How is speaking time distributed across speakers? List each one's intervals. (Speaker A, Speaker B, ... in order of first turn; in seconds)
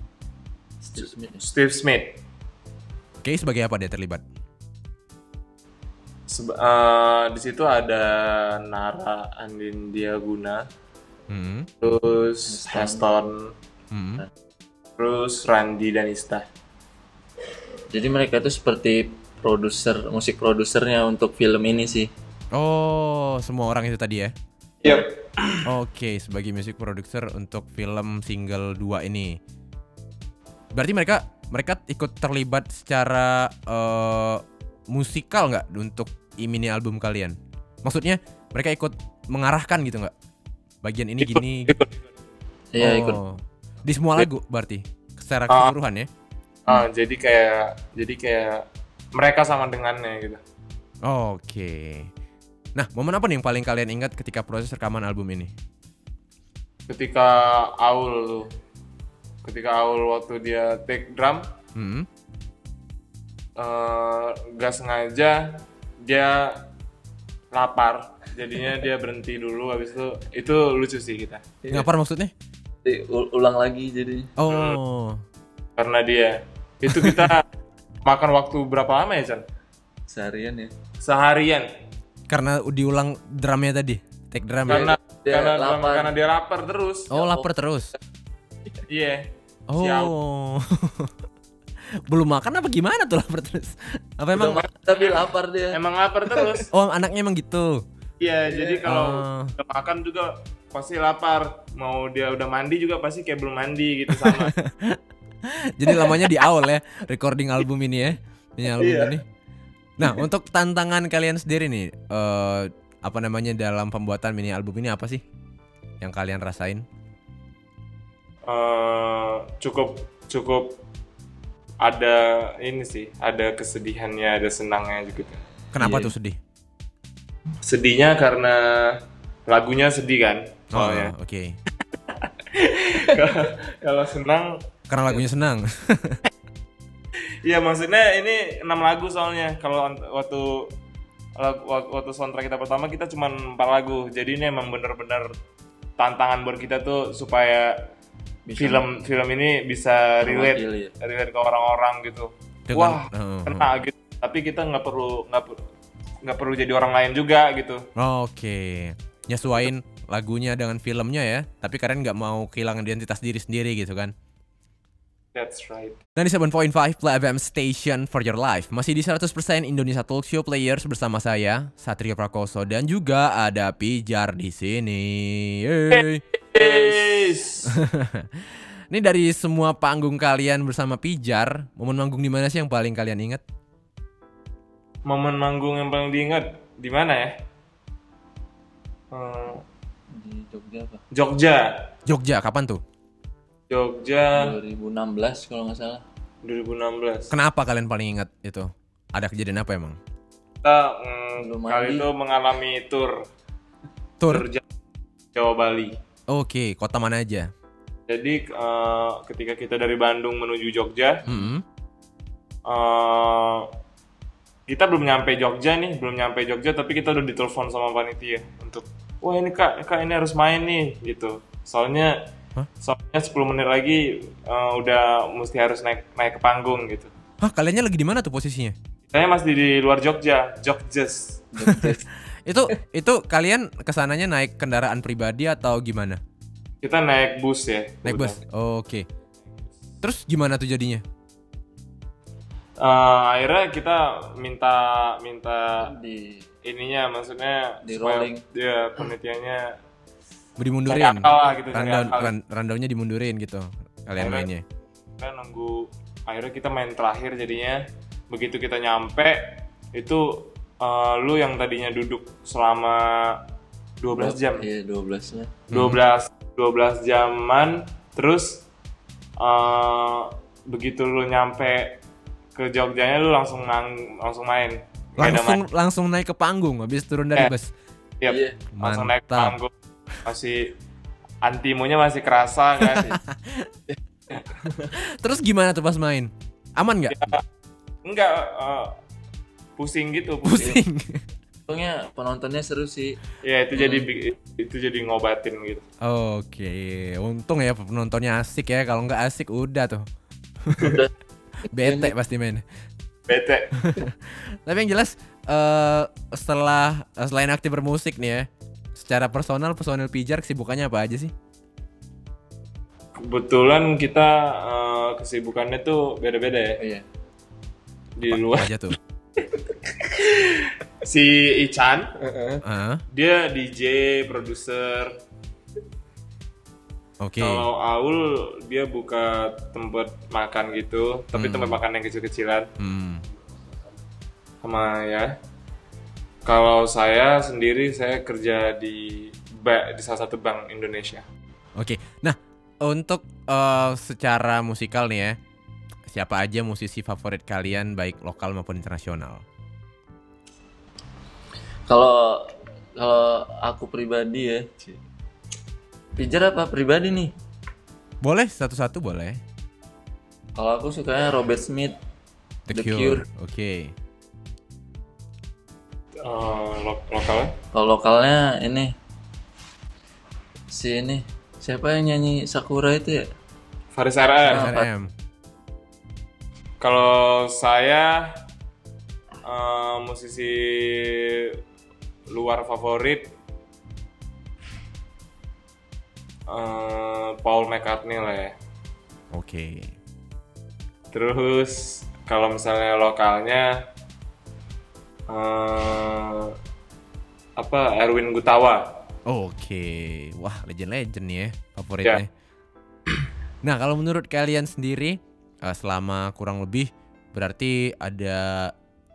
Speaker A: 0.8-1.4, 12.5-13.0, 17.9-22.1, 42.7-43.2, 71.6-71.9, 72.8-74.3, 80.1-80.7, 84.7-86.1, 87.1-87.5, 94.3-95.8, 98.5-98.8, 125.8-126.1, 148.4-149.0, 150.2-150.9, 190.1-191.0, 194.3-196.0, 201.4-202.1, 231.5-232.0, 245.8-246.4, 247.8-248.4, 264.2-265.6, 278.3-278.6, 291.7-293.2, 293.8-294.0, 300.8-301.1, 301.7-302.1, 322.3-322.6, 351.9-354.9, 356.1-357.3, 360.6-361.9, 362.7-363.2, 367.7-368.9, 370.7-373.3, 374.5-374.9
Speaker B: 1.0-2.2, 6.3-10.6, 11.8-13.5, 15.0-16.4, 24.8-25.6, 41.2-41.9, 46.7-50.4, 56.9-58.5, 59.4-61.5, 63.6-66.6, 67.5-71.4, 74.5-74.8, 75.8-77.4, 78.0-79.4, 81.0-81.7, 84.7-87.1, 88.9-89.2, 89.8-90.1, 95.7-96.7, 98.2-104.5, 108.7-109.2, 118.5-120.8, 121.8-125.4, 127.6-131.1, 132.1-134.6, 137.4-140.7, 141.4-145.3, 146.0-147.9, 148.6-155.6, 156.2-157.8, 165.3-166.0, 175.9-177.8, 185.0-187.4, 189.1-189.6, 191.1-191.9, 193.7-194.6, 196.4-197.3, 200.6-203.2, 204.3-204.6, 205.3-205.9, 208.1-211.2, 212.7-213.7, 214.7-222.3, 222.8-227.1, 229.1-231.5, 236.8-238.4, 242.8-245.9, 246.6-249.8, 250.9-252.3, 254.2-254.5, 255.2-263.4, 264.0-264.7, 265.7-268.6, 269.4-272.0, 272.6-275.6, 278.2-279.7, 280.2-280.7, 281.4-283.1, 284.3-284.9, 287.1-287.4, 288.0-289.0, 289.8-290.8, 293.4-295.8, 303.3-304.0, 313.2-316.8, 318.2-318.7, 320.0-322.1, 323.1-325.2, 327.4-332.7, 334.6-335.4, 336.4-341.2, 366.2-367.5, 373.9-374.7, 376.8-378.4, 379.4-381.6, 382.3-383.3, 386.5-388.6, 391.1-393.8, 395.3-396.5, 397.6-399.0
Speaker C: 3.2-4.2, 11.3-11.7, 13.9-14.2, 22.5-24.3, 25.6-29.4, 30.7-40.1, 40.8-41.7, 42.8-46.1, 51.0-52.1, 52.8-55.5, 61.7-62.1, 71.7-72.3, 74.4-75.2, 76.9-77.3, 82.3-84.9, 87.1-87.9, 89.7-91.1, 92.1-94.7, 96.7-97.8, 98.8-99.5, 104.1-109.2, 110.0-115.2, 116.0-116.8, 125.7-126.4, 130.7-131.6, 134.9-136.2, 152.7-153.7, 157.9-164.1, 166.2-176.2, 177.7-183.4, 192.1-192.8, 197.3-200.0, 204.2-204.4, 206.3-207.5, 211.3-211.6, 227.4-228.8, 231.6-236.2, 238.0-239.1, 240.0-241.0, 250.6-254.6, 265.7-266.0, 275.2-277.7, 278.7-279.6, 282.9-283.7, 284.9-287.4, 290.4-291.2, 296.0-300.1, 300.6-300.9, 301.7-302.6, 303.8-311.3, 318.3-319.0, 322.6-323.0, 327.2-327.7, 331.4-331.8, 332.8-333.2, 341.8-345.4, 346.1-349.4, 358.2-359.4, 362.7-363.9, 374.5-375.1, 389.3-389.9, 399.2-402.3, 403.6-408.7